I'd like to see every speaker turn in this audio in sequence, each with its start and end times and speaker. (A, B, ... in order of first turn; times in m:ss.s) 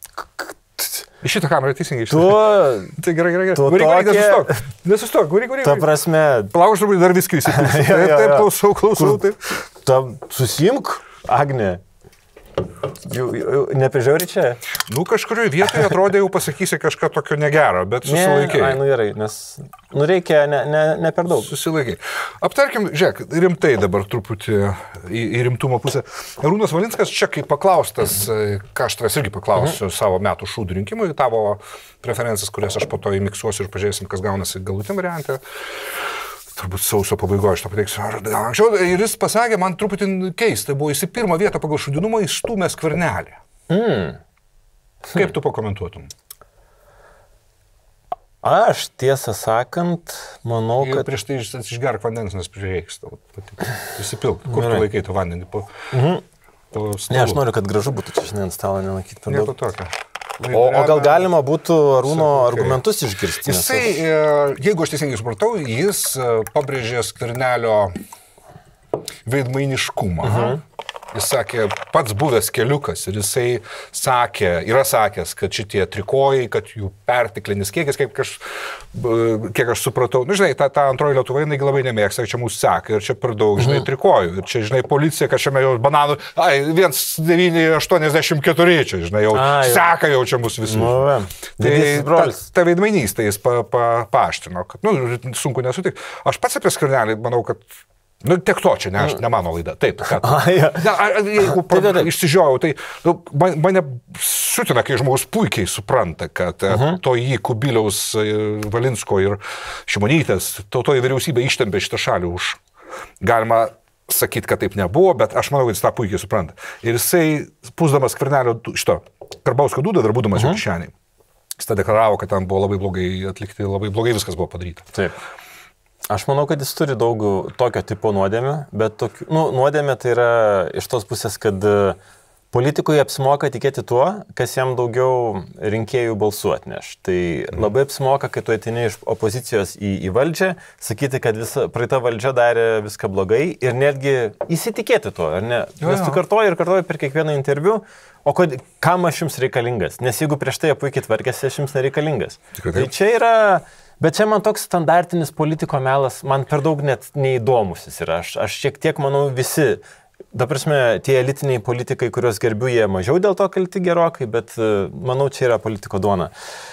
0:00.2-0:01.0 A
0:01.2-0:05.9 B
0:02.1-0:03.0 A
0:03.5-0:04.6 A
0:05.6-0:06.5 A
0:06.5-0:09.4 B
0:07.5-0:09.2 A
0:09.8-0:11.8 A
0:13.0-0:14.6 A
0:14.8-0:18.8 B
0:18.0-0:21.5 A
0:21.3-0:43.4 B
0:43.7-0:44.2 A
0:45.1-0:46.1 B
0:48.4-0:51.1 A
0:50.8-0:55.7 B
0:54.5-0:54.8 A
0:55.9-0:56.2 A
0:56.7-0:57.4 B
0:57.1-0:59.5 A
0:59.3-1:01.3 B
1:00.5-1:04.0 A
1:02.0-1:02.8 B
1:03.4-1:07.9 B
1:09.2-1:10.6 B
1:10.2-1:10.6 A
1:11.1-1:31.0 B
1:29.3-1:29.9 A
1:30.6-1:32.4 A
1:31.6-1:37.7 B
1:38.2-1:52.6 B
1:40.1-1:42.1 A
1:46.7-1:47.0 A
1:53.2-2:00.9 B
2:01.6-2:04.9 B
2:06.1-2:12.0 A
2:12.5-2:39.8 A
2:25.8-2:26.2 B
2:32.6-2:32.9 B
2:40.3-2:46.3 A